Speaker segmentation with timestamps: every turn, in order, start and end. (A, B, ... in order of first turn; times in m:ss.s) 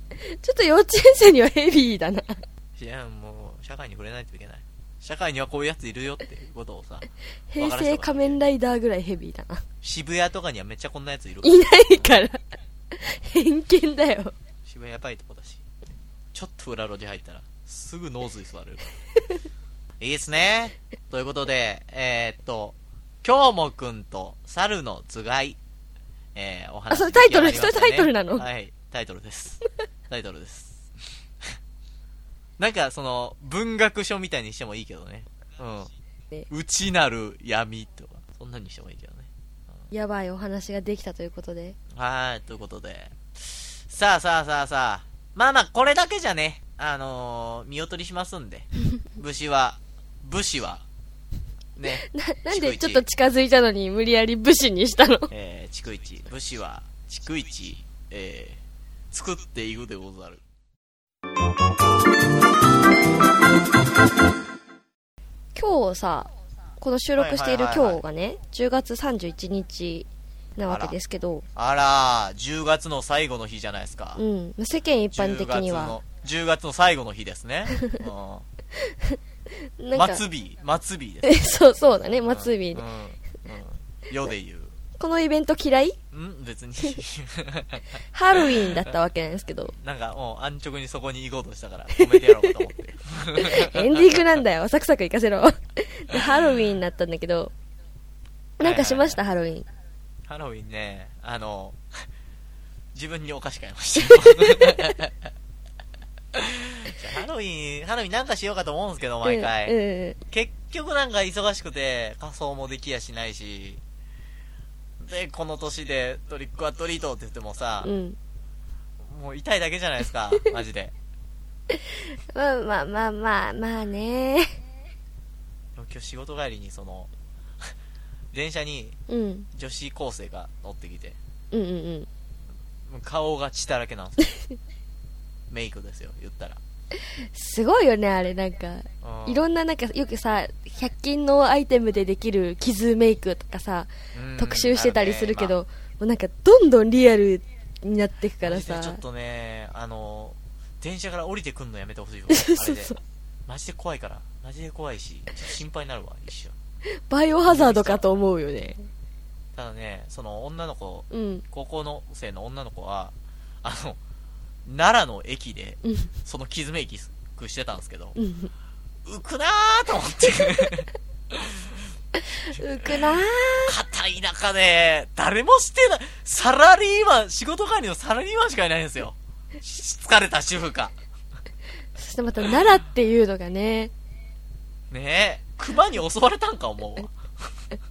0:00.2-0:02.4 A
0:02.8-0:08.4 B
0:07.5-0:09.6 A
0:09.8-0:12.1 B
0:11.4-0:12.4 A
0:13.0-0:14.3 A
0:14.7-0:15.7 B
0:16.3-0:18.9 B
0:20.0-0:25.6 B
0:26.4-0:30.8 B
0:26.9-0:28.4 A
0:32.6-0:35.9 B
0:36.5-0:39.3 B
0:39.9-0:41.8 A
0:42.0-0:43.2 B
0:43.9-0:50.8 B
0:51.8-0:53.0 B
0:52.0-0:55.3 A
0:55.3-0:58.6 B
0:59.1-1:00.4 B
1:05.6-1:06.3 A
1:06.8-1:11.4 A
1:07.2-1:08.0 B
1:10.7-1:11.0 B
1:11.6-1:14.2 B
1:14.2-1:16.0 A
1:15.1-1:18.4 B
1:18.8-1:19.2 A
1:19.8-1:20.2 A
1:20.0-1:21.4 B
1:21.2-1:22.8 A
1:22.2-1:24.8 B
1:25.0-1:26.0 A
1:26.1-1:28.0 B
1:28.1-1:29.7 A
1:28.6-1:28.9 B
1:29.8-1:34.4 B
1:32.0-1:32.5 A
1:33.4-1:37.5 A
1:38.6-1:39.7 A
1:38.6-1:39.2 B
1:40.3-1:41.8 B
1:42.9-1:45.3 B
1:44.1-1:44.9 A
1:46.4-1:49.8 B
1:49.2-1:50.2 A
1:50.3-1:53.8 B
1:55.0-1:57.9 B
1:57.8-1:58.2 A
1:59.0-2:00.9 B
2:01.7-2:04.5 A
2:05.8-2:07.1 B
2:08.3-2:09.0 B
2:09.1-2:09.5 A
2:09.5-2:11.2 B
2:11.5-2:12.1 A
2:12.9-2:14.3 B
2:15.5-2:16.6 B
2:17.2-2:29.0 A
2:19.0-2:19.4 B
2:24.2-2:25.6 B
2:28.4-2:36.6 B
2:32.3-2:33.0 A
2:37.1-2:38.8 A
2:37.4-2:38.2 B
2:39.6-2:44.0 B
2:41.1-2:41.4 A
2:44.7-2:48.2 B
2:48.2-2:48.5 A
2:49.1-2:51.6 B
2:52.3-2:53.7 A
2:52.6-3:01.0 B
3:02.0-3:03.9 A
3:04.9-3:07.2 B